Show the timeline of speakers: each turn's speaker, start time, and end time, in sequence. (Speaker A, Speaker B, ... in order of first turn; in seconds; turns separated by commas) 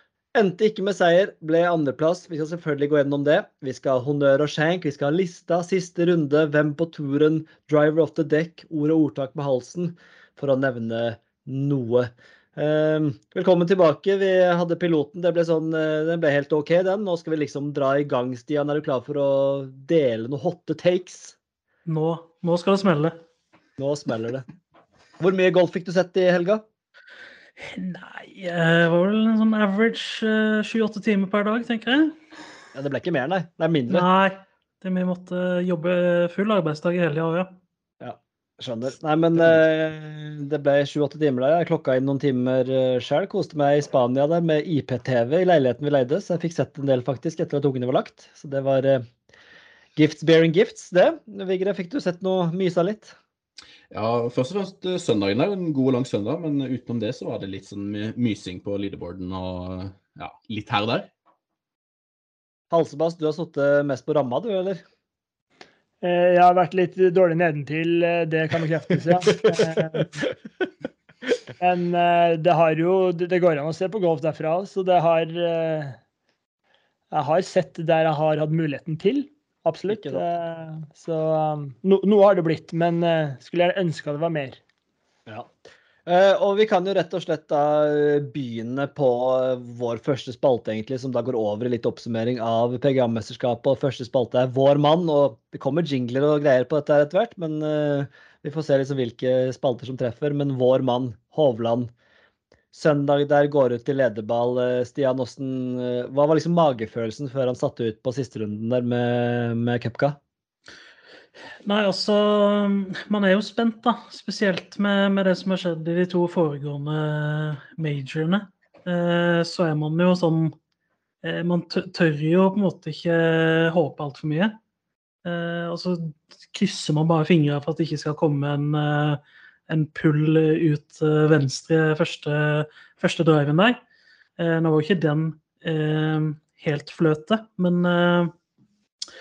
Speaker A: 0.3-21.4, Speaker B: 21.9-23.2, Speaker A: 23.8-24.5, Speaker A: 25.2-26.6, Speaker B: 27.6-32.2, Speaker A: 32.7-34.1, Speaker B: 33.9-37.6, Speaker A: 38.0-49.0, Speaker A: 50.0-53.2, Speaker C: 53.9-61.1, Speaker A: 62.7-64.8, Speaker D: 66.0-70.2, Speaker D: 71.6-76.0, Speaker D: 77.1-84.6, Speaker A: 79.9-80.2, Speaker A: 86.1-101.9, Speaker A: 102.7-110.2, Speaker B: 111.7-120.5, Speaker B: 121.2-124.6, Speaker B: 125.2-133.8, Speaker B: 134.4-138.3